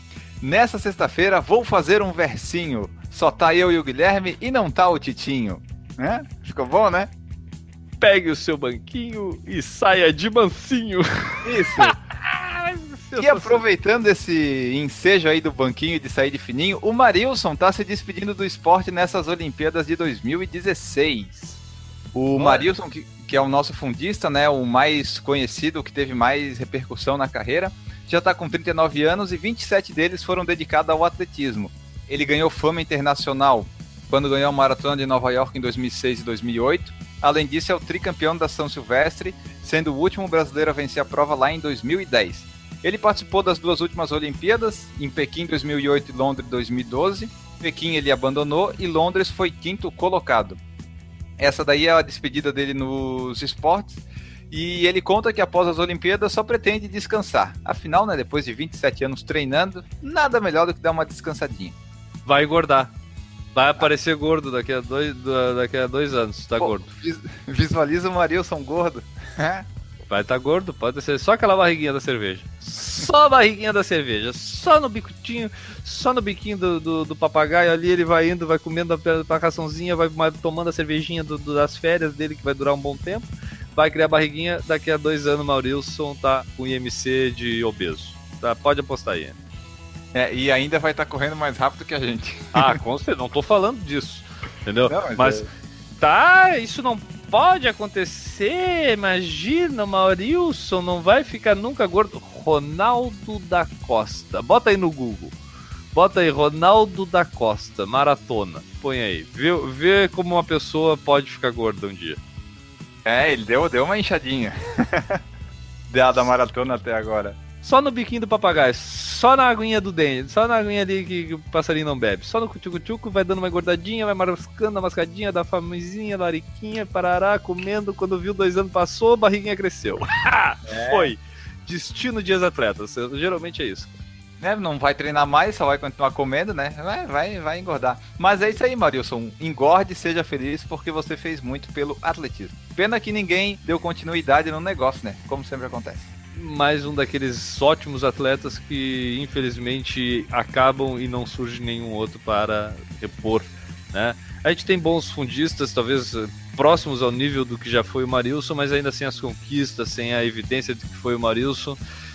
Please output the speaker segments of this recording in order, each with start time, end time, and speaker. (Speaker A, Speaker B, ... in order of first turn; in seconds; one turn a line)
Speaker A: 0.4-7.1
Speaker B: 8.0-13.6
Speaker A: 11.4-11.9
Speaker A: 13.2-21.6
Speaker A: 22.1-50.6
Speaker B: 22.3-22.7
Speaker A: 51.4-61.8
Speaker B: 62.2-62.9
Speaker B: 63.5-66.9
Speaker A: 66.6-69.7
Speaker B: 70.1-89.4
Speaker A: 90.1-92.8
Speaker B: 92.5-95.5
Speaker A: 94.9-95.5
Speaker B: 96.0-105.3
Speaker B: 105.9-112.2
Speaker A: 113.0-115.2
Speaker A: 115.9-117.4
Speaker B: 117.6-133.9
Speaker A: 130.7-131.1
Speaker A: 134.4-146.1
Speaker B: 146.3-161.8